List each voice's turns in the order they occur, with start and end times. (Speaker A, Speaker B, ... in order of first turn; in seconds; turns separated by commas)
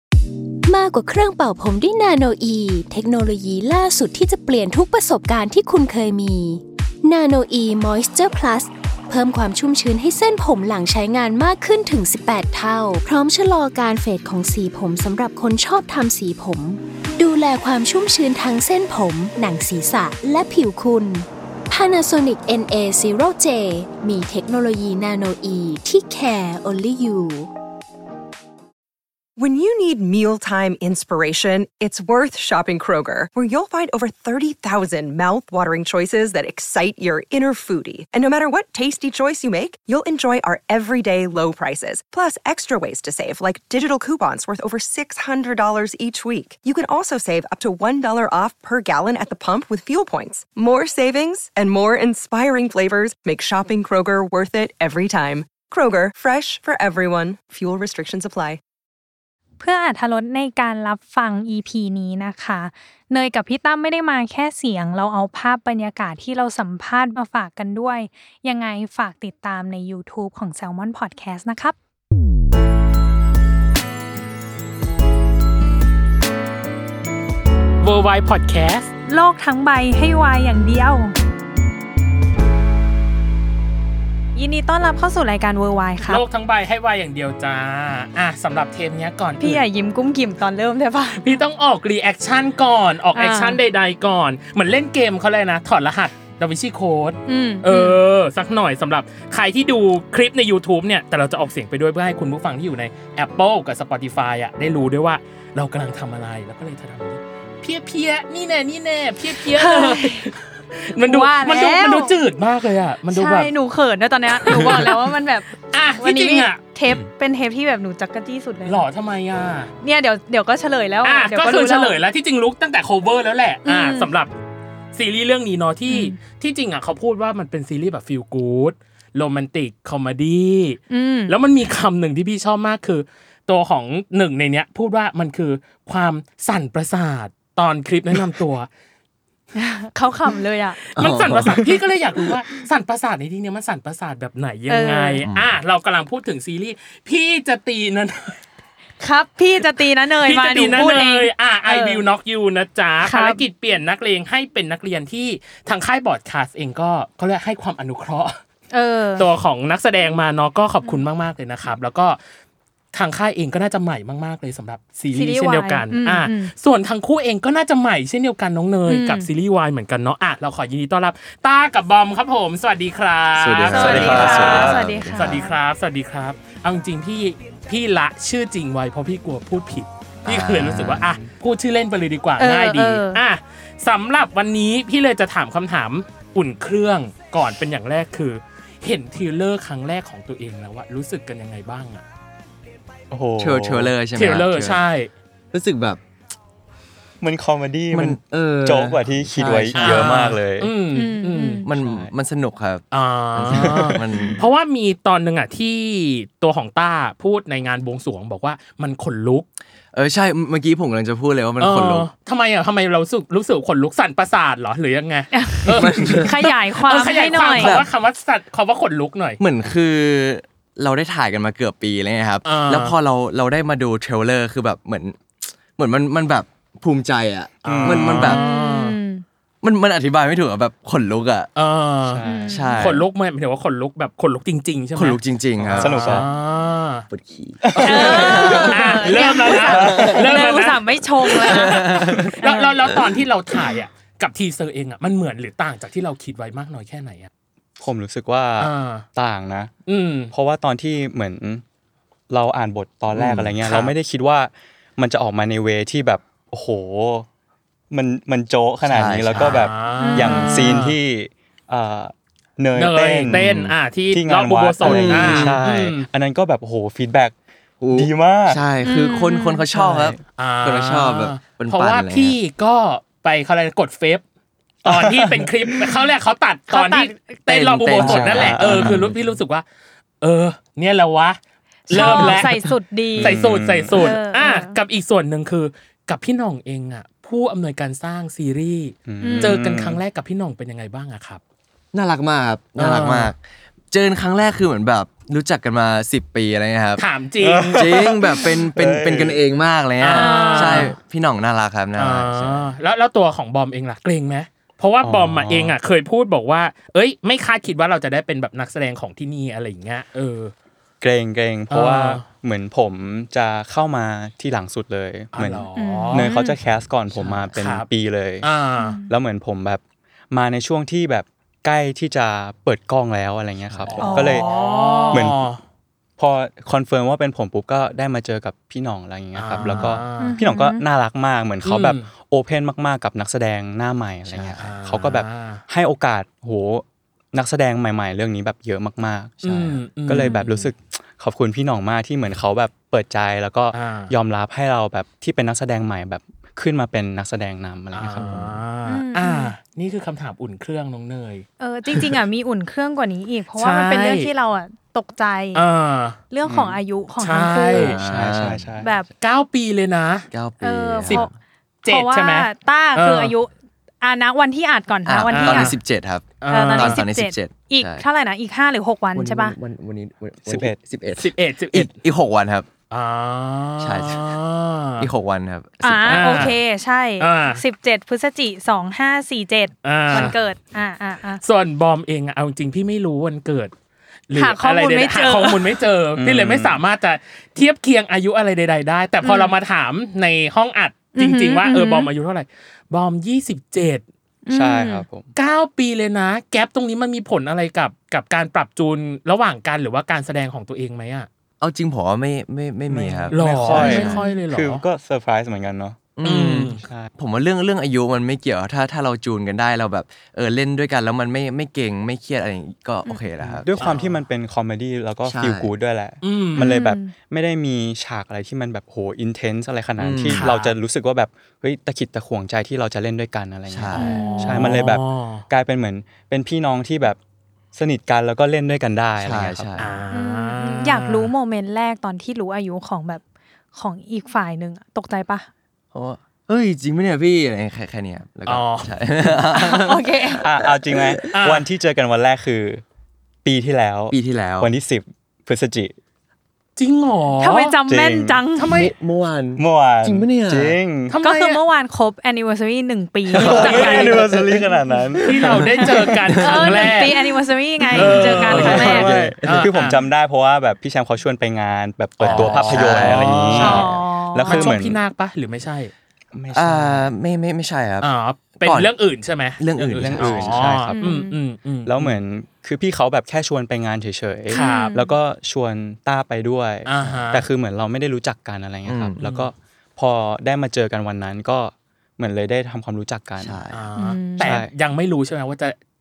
Speaker A: 0.7-27.5, Speaker B: 29.4-58.6, Speaker C: 59.6-71.8, Speaker D: 77.8-78.9, Speaker C: 79.1-81.2, Speaker C: 84.3-86.2, Speaker D: 86.0-89.7, Speaker C: 89.4-91.4, Speaker D: 91.2-113.5, Speaker C: 93.1-93.6, Speaker C: 97.3-98.0, Speaker C: 109.4-110.3, Speaker C: 111.0-112.2, Speaker C: 113.1-118.8, Speaker D: 114.4-115.0, Speaker D: 115.7-116.6, Speaker D: 118.7-119.7, Speaker C: 119.8-122.0, Speaker D: 121.0-124.3, Speaker C: 123.7-124.1, Speaker D: 124.9-138.7, Speaker C: 125.9-126.2, Speaker C: 130.9-131.4, Speaker C: 139.6-140.8, Speaker E: 141.0-141.7, Speaker D: 141.0-148.4, Speaker C: 144.7-145.2, Speaker E: 145.2-145.5, Speaker C: 149.0-152.1, Speaker D: 150.2-158.4, Speaker C: 153.0-153.4, Speaker C: 158.7-159.3, Speaker D: 159.2-162.2, Speaker D: 162.9-192.0, Speaker C: 165.1-166.5, Speaker C: 168.9-169.3, Speaker E: 173.3-175.4, Speaker C: 173.7-175.6, Speaker F: 173.8-174.8, Speaker E: 180.3-181.1, Speaker F: 180.7-181.3, Speaker C: 182.4-183.2, Speaker F: 193.1-193.9, Speaker E: 193.4-194.8, Speaker D: 194.2-195.1, Speaker E: 195.5-196.0, Speaker F: 197.2-200.7, Speaker E: 197.9-200.3, Speaker D: 199.8-201.6, Speaker C: 200.9-201.7, Speaker E: 201.6-202.8, Speaker F: 201.7-202.1, Speaker D: 202.9-209.5, Speaker E: 203.3-204.4, Speaker F: 203.5-204.0, Speaker E: 209.9-212.1, Speaker D: 211.6-219.4, Speaker C: 215.3-217.8, Speaker E: 215.8-216.4, Speaker E: 217.6-217.9, Speaker E: 219.4-228.4, Speaker D: 222.4-222.9, Speaker F: 227.7-228.4, Speaker D: 227.7-229.0, Speaker C: 228.3-229.2, Speaker E: 229.6-231.5, Speaker D: 231.6-232.2, Speaker F: 232.1-232.6, Speaker C: 232.2-233.0, Speaker E: 232.5-233.0, Speaker D: 232.7-237.1, Speaker E: 234.9-236.3, Speaker F: 235.7-236.3, Speaker E: 237.1-240.5, Speaker F: 237.6-238.5, Speaker C: 237.8-242.8, Speaker D: 238.0-247.3, Speaker F: 239.7-240.1, Speaker E: 241.4-242.3, Speaker F: 247.8-249.7, Speaker D: 248.6-249.1, Speaker D: 249.9-250.3, Speaker F: 250.3-251.6, Speaker F: 252.3-257.3, Speaker E: 253.1-253.6, Speaker F: 257.9-267.4, Speaker E: 258.9-259.7, Speaker D: 259.4-261.0, Speaker C: 259.9-260.8, Speaker D: 262.8-266.1, Speaker E: 264.8-265.6, Speaker E: 267.8-272.4, Speaker F: 267.9-268.6, Speaker C: 268.8-269.6, Speaker F: 269.7-270.2, Speaker D: 270.4-274.2, Speaker F: 274.9-276.0, Speaker D: 274.9-279.6, Speaker C: 276.7-277.2, Speaker E: 277.5-279.2, Speaker F: 278.0-279.1, Speaker D: 280.2-281.4, Speaker D: 281.9-291.4, Speaker C: 281.9-284.8, Speaker F: 283.1-284.0, Speaker F: 289.1-290.0, Speaker C: 289.2-289.6, Speaker E: 291.9-293.4, Speaker D: 292.8-293.3, Speaker E: 293.9-297.1, Speaker D: 297.0-298.2, Speaker F: 297.4-299.4, Speaker E: 297.7-302.7, Speaker D: 300.0-301.0, Speaker C: 300.1-300.9, Speaker D: 302.0-310.5, Speaker F: 305.0-305.8, Speaker F: 311.0-318.5, Speaker D: 311.7-312.2, Speaker D: 315.3-316.3, Speaker C: 315.8-316.6, Speaker E: 317.1-317.6, Speaker D: 317.6-317.9, Speaker D: 318.4-319.0, Speaker C: 318.8-319.1, Speaker F: 319.1-324.5, Speaker E: 323.7-324.3, Speaker D: 323.9-325.6, Speaker C: 324.0-325.3, Speaker F: 325.1-325.4, Speaker F: 326.2-339.4, Speaker D: 329.4-330.4, Speaker E: 329.7-330.0, Speaker C: 330.2-330.8, Speaker D: 331.6-332.1, Speaker E: 334.3-334.6, Speaker D: 334.6-335.6, Speaker E: 339.4-339.8, Speaker D: 339.4-340.4, Speaker F: 340.1-348.6, Speaker C: 340.2-340.7, Speaker D: 343.7-344.1, Speaker D: 347.9-352.2, Speaker E: 348.2-348.5, Speaker C: 348.9-349.5, Speaker C: 351.6-355.6, Speaker D: 353.6-354.3, Speaker D: 355.5-356.2, Speaker C: 356.3-358.0, Speaker F: 356.5-356.8, Speaker D: 357.2-358.0, Speaker E: 357.8-358.8, Speaker F: 358.0-358.9, Speaker C: 358.8-359.1, Speaker D: 359.2-360.3, Speaker E: 360.3-361.4, Speaker C: 360.6-361.3, Speaker D: 361.8-363.4, Speaker C: 361.9-363.5, Speaker C: 364.0-365.8, Speaker E: 365.1-368.1, Speaker D: 365.3-365.8, Speaker D: 366.4-367.0, Speaker C: 366.5-369.6, Speaker E: 369.1-372.7, Speaker F: 370.4-370.8, Speaker D: 371.2-371.9, Speaker D: 372.9-375.1, Speaker E: 373.8-374.4, Speaker E: 375.0-376.5, Speaker C: 375.8-381.4, Speaker D: 376.1-376.6, Speaker D: 377.2-377.6, Speaker D: 379.8-380.3, Speaker D: 381.4-383.7, Speaker D: 384.3-394.0, Speaker C: 384.3-385.8, Speaker F: 386.2-386.8, Speaker C: 389.2-389.6, Speaker C: 391.2-392.1, Speaker C: 394.5-395.1, Speaker F: 394.5-395.3, Speaker D: 395.4-401.3, Speaker E: 401.6-404.2, Speaker F: 402.9-406.1, Speaker D: 403.3-404.9, Speaker C: 403.8-404.4, Speaker E: 406.1-413.9, Speaker D: 406.2-406.8, Speaker F: 406.8-407.1, Speaker F: 413.4-427.2, Speaker D: 413.8-414.2, Speaker E: 415.3-415.7, Speaker D: 416.2-416.7, Speaker C: 416.6-417.1, Speaker E: 420.0-420.5, Speaker D: 420.3-420.8, Speaker E: 423.7-424.9, Speaker C: 424.0-424.7, Speaker D: 424.4-425.4, Speaker F: 427.7-429.7, Speaker E: 429.2-430.0, Speaker D: 429.8-431.3, Speaker C: 430.1-433.2, Speaker C: 433.7-435.5, Speaker E: 435.9-441.3, Speaker D: 438.5-439.0, Speaker C: 439.5-440.4, Speaker F: 440.4-442.8, Speaker D: 441.3-441.7, Speaker F: 443.4-445.9, Speaker E: 444.1-444.7, Speaker D: 446.8-447.8, Speaker C: 447.4-448.7, Speaker F: 447.9-448.4, Speaker D: 448.6-448.9, Speaker E: 448.7-450.8, Speaker F: 449.6-451.1, Speaker D: 451.1-451.6, Speaker C: 451.2-459.1, Speaker D: 453.4-454.2, Speaker F: 453.4-456.1, Speaker E: 453.4-454.1, Speaker D: 455.2-457.1, Speaker E: 456.3-456.9, Speaker D: 457.9-460.0, Speaker E: 457.9-459.7, Speaker F: 458.0-465.0, Speaker E: 462.2-463.8, Speaker D: 462.2-463.9, Speaker C: 463.6-464.7, Speaker D: 464.4-465.9, Speaker F: 466.3-467.1, Speaker E: 466.5-468.1, Speaker D: 468.0-472.2, Speaker E: 468.6-468.9, Speaker E: 469.6-470.8, Speaker F: 469.9-471.1, Speaker C: 471.0-471.4, Speaker F: 471.9-483.6, Speaker C: 474.5-475.1, Speaker D: 474.5-475.0, Speaker D: 476.9-477.5, Speaker E: 478.9-479.3, Speaker E: 483.4-483.9, Speaker D: 483.7-485.8, Speaker C: 484.0-484.6, Speaker F: 484.4-484.7